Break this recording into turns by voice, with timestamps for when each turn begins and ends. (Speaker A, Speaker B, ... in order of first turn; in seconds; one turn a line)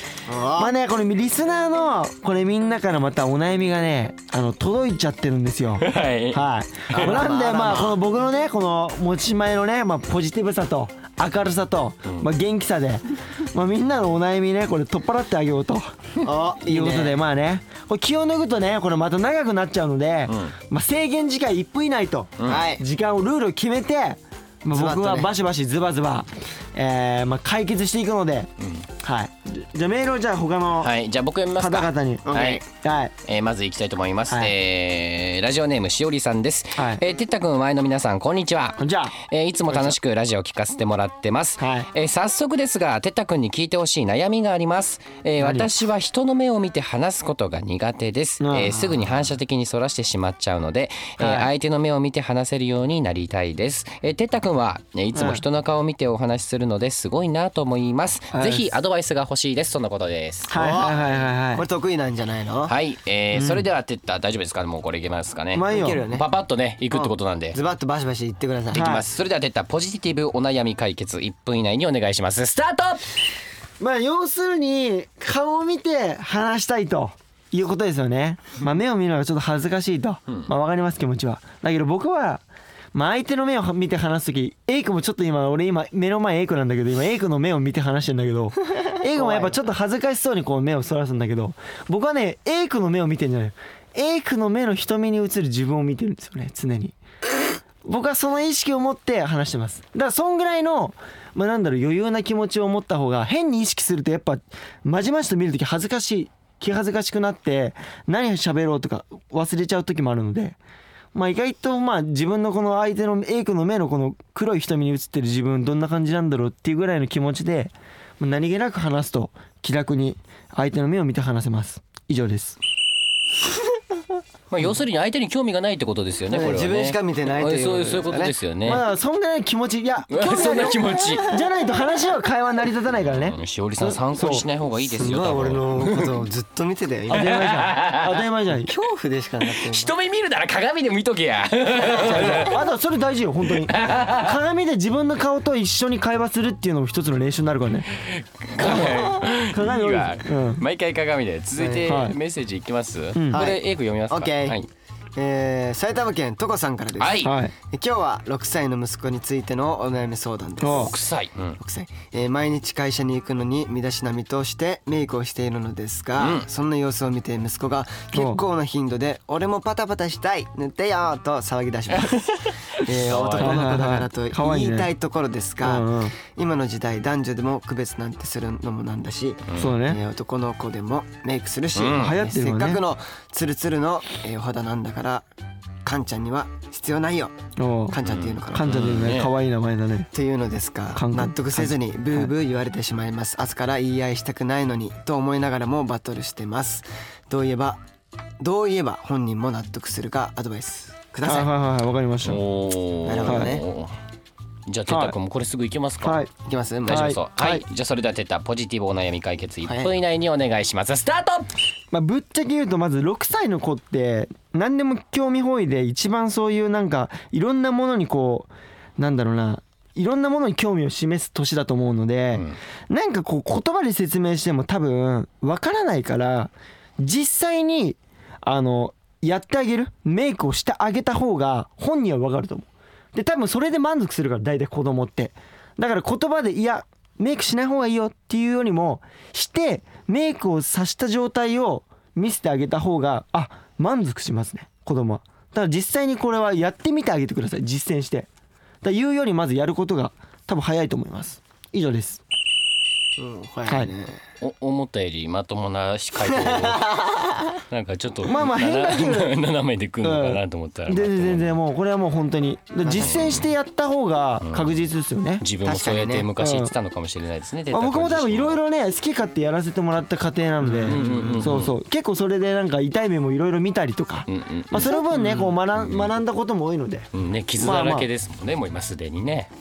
Speaker A: 0.2-0.7
Speaker B: 0.6-15.9
Speaker C: 5.8-6.4
Speaker C: 6.9-7.2
Speaker A: 6.9-8.0
Speaker A: 16.2-17.2
Speaker B: 16.6-30.9
Speaker C: 20.3-20.5
Speaker C: 22.4-22.6
Speaker A: 22.4-22.8
Speaker A: 24.7-25.3
Speaker C: 28.6-28.9
Speaker C: 30.8-32.6
Speaker B: 31.6-33.1
Speaker A: 32.2-32.6
Speaker C: 33.2-60.5
Speaker B: 36.8-37.0
Speaker B: 38.8-39.2
Speaker B: 41.6-41.9
Speaker B: 45.4-45.7
Speaker B: 48.4-48.8
Speaker B: 51.2-51.5
Speaker B: 55.1-55.4
Speaker B: 58.3-58.7
Speaker B: 60.5-61.6
Speaker A: 60.5-62.7
Speaker C: 62.7-67.6
Speaker B: 63.3-63.6
Speaker B: 65.5-66.0
Speaker A: 65.7-66.3
Speaker A: 66.9-69.0
Speaker C: 68.7-73.1
Speaker B: 68.7-69.0
Speaker B: 73.8-97.0
Speaker A: 89.1-89.6
Speaker B: 97.8-110.6
Speaker B: 111.1-122.6
Speaker C: 124.5-128.8
Speaker A: 126.3-128.3
Speaker B: 128.6-134.4
Speaker C: 130.1-131.3
Speaker A: 130.5-131.4
Speaker C: 133.1-136.2
Speaker A: 134.8-137.4
Speaker B: 137.1-138.7
Speaker C: 137.1-138.2
Speaker A: 138.7-139.9
Speaker C: 139.4-142.6
Speaker A: 141.8-142.5
Speaker B: 142.1-148.0
Speaker C: 143.5-144.3
Speaker C: 147.9-154.7
Speaker B: 148.6-150.6
Speaker A: 151.6-151.9
Speaker B: 151.8-152.2
Speaker B: 153.1-153.5
Speaker A: 153.3-154.6
Speaker A: 155.2-161.0
Speaker C: 157.0-157.3
Speaker B: 157.2-157.5
Speaker B: 160.6-160.9
Speaker C: 160.6-161.6
Speaker A: 161.6-185.2
Speaker C: 166.2-166.5
Speaker B: 168.1-168.4
Speaker C: 172.8-173.6
Speaker B: 173.4-174.9
Speaker B: 175.6-176.2
Speaker B: 179.5-180.0
Speaker C: 181.8-182.2
Speaker B: 181.9-182.8
Speaker A: 185.8-187.3
Speaker B: 187.6-188.0
Speaker A: 187.9-188.9
Speaker C: 188.0-189.3
Speaker B: 188.5-190.1
Speaker A: 190.1-197.8
Speaker B: 190.9-192.3
Speaker A: 198.4-201.5
Speaker B: 201.2-202.4
Speaker C: 202.2-203.9
Speaker A: 203.0-203.6
Speaker B: 203.2-203.5
Speaker C: 204.7-206.2
Speaker B: 204.9-205.1
Speaker B: 206.0-206.3
Speaker A: 206.5-207.1
Speaker C: 206.8-211.5
Speaker B: 206.9-207.6
Speaker A: 209.7-209.9
Speaker B: 211.9-248.3
Speaker B: 248.8-252.2
Speaker A: 253.2-254.2
Speaker B: 253.7-253.9
Speaker C: 254.4-257.0
Speaker A: 256.2-257.6
Speaker C: 257.7-261.6
Speaker B: 258.2-259.3
Speaker B: 260.0-265.4
Speaker A: 262.8-263.4
Speaker C: 263.0-263.5
Speaker C: 264.4-264.7
Speaker C: 265.4-268.6
Speaker A: 265.6-266.3
Speaker B: 266.4-266.7
Speaker B: 267.7-278.1
Speaker A: 270.6-271.7
Speaker C: 270.9-271.7
Speaker C: 274.3-275.0
Speaker A: 274.9-275.5
Speaker C: 275.7-276.1
Speaker C: 277.1-279.5